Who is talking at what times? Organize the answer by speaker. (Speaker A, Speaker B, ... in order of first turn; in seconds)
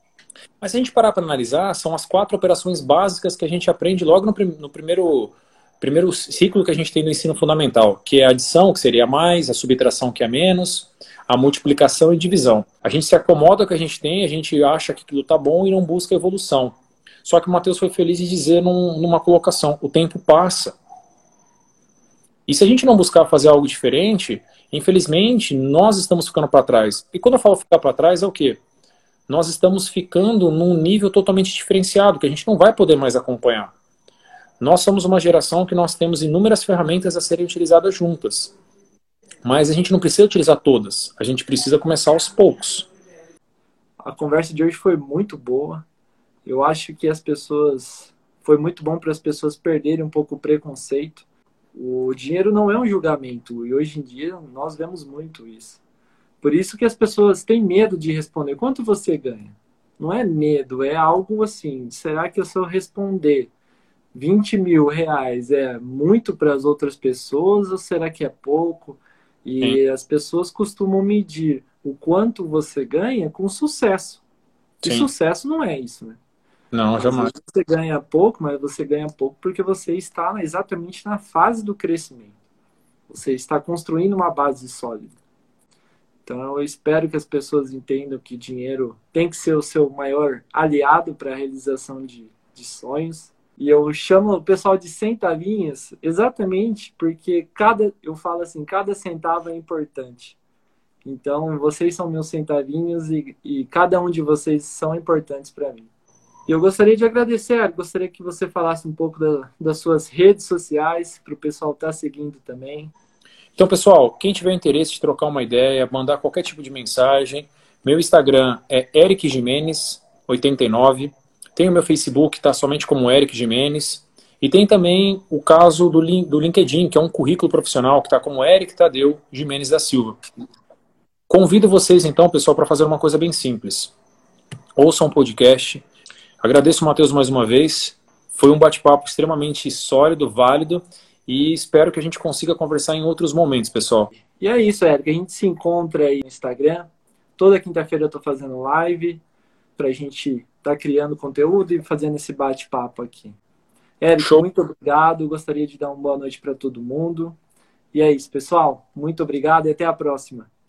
Speaker A: 0.6-20.7, 22.5-28.6, 29.3-33.7, 34.6-38.5, 39.4-42.9, 74.8-75.1, 76.7-77.3, 113.5-130.2, 131.3-133.9, 134.8-135.8, 136.4-144.1, 154.2-154.4
Speaker B: 44.0-45.8, 46.4-55.8, 56.4-63.5, 64.1-74.2, 74.8-76.2, 77.0-82.3, 83.1-85.1, 86.2-100.4, 101.0-105.9, 106.5-112.9, 144.3-149.2, 149.8-153.3, 154.0-157.3, 157.9-160.5